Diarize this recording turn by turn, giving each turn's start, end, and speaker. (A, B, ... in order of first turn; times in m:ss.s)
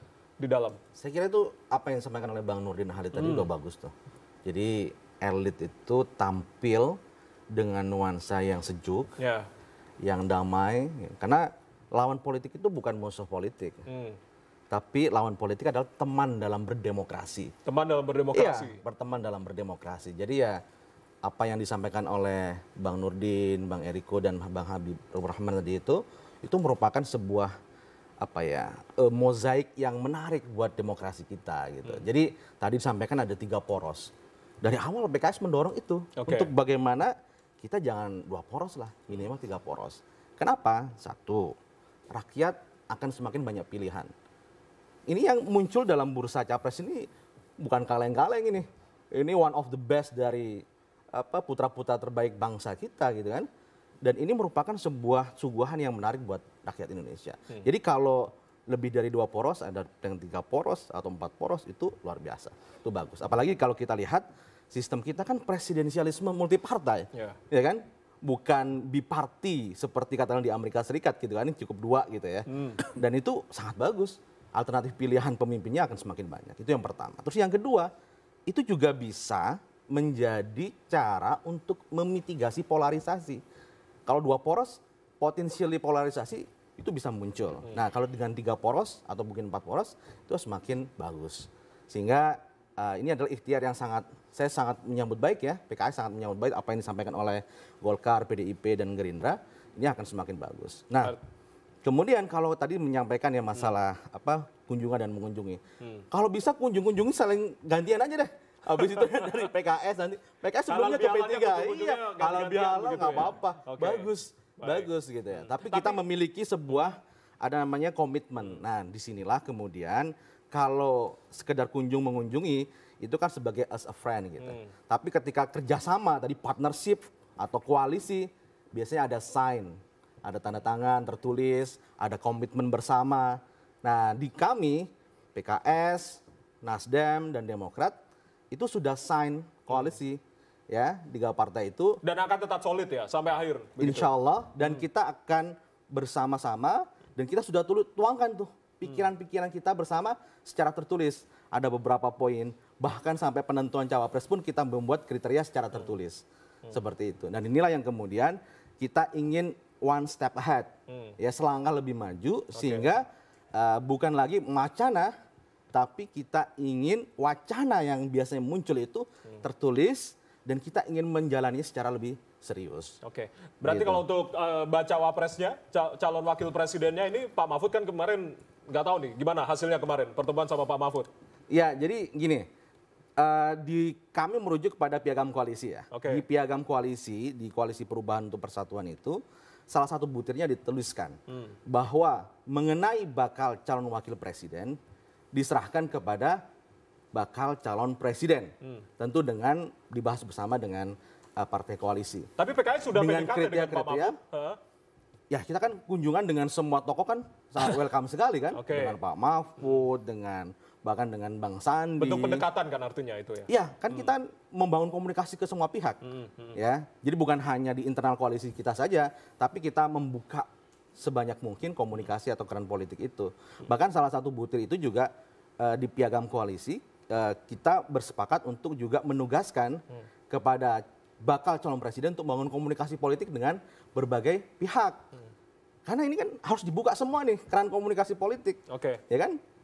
0:00.4-0:00.8 A
0:01.0-0:03.9 B
0:03.1-0:03.4 A
0:04.4-0:07.0 B
0:07.5-0:09.1 B
0:09.2-0:09.5 A
0:10.0-0:13.8 B
0:13.9-0:14.2 A
0:14.7-0:17.5 B
0:17.6-0:18.8 A
0:18.3-0:20.6 B
0:21.2-0:27.5 B
0:28.2-0:34.1 B
0:34.6-0:41.5 B
0:36.2-0:36.5 A
0:42.1-0:44.1 B
0:45.1-0:47.1 B
0:47.6-0:53.5 B
0:54.0-1:17.9 B
1:12.5-1:12.8 A
1:18.5-1:23.4 B
1:24.1-1:41.2 B
1:41.8-2:18.0 B
1:48.7-1:49.1 A
1:50.7-1:54.1 A
1:54.6-1:56.0 A
2:04.4-2:04.7 A
2:18.5-2:22.0 B
2:22.0-2:24.1 A
2:23.8-2:45.1 B
2:40.9-2:41.1 A
2:42.5-2:42.8 A
2:45.7-2:53.0 B
2:53.0-3:01.1 A
2:53.6-2:54.0 B
3:01.5-3:02.5 B
3:03.2-3:09.2 B
3:05.9-3:06.2 A
3:09.7-3:11.2 B
3:11.3-3:11.5 A
3:11.7-3:14.8 B
3:15.3-3:16.4 B
3:17.1-3:22.3 B
3:22.4-3:24.6 A
3:22.9-3:24.2 B
3:25.3-3:32.4 B
3:28.5-3:29.0 A
3:32.0-3:34.1 A
3:33.5-3:36.0 B
3:36.0-3:36.6 A
3:36.5-3:55.0 B
3:55.8-3:58.6 B
3:58.7-3:59.0 A
3:59.1-3:59.4 B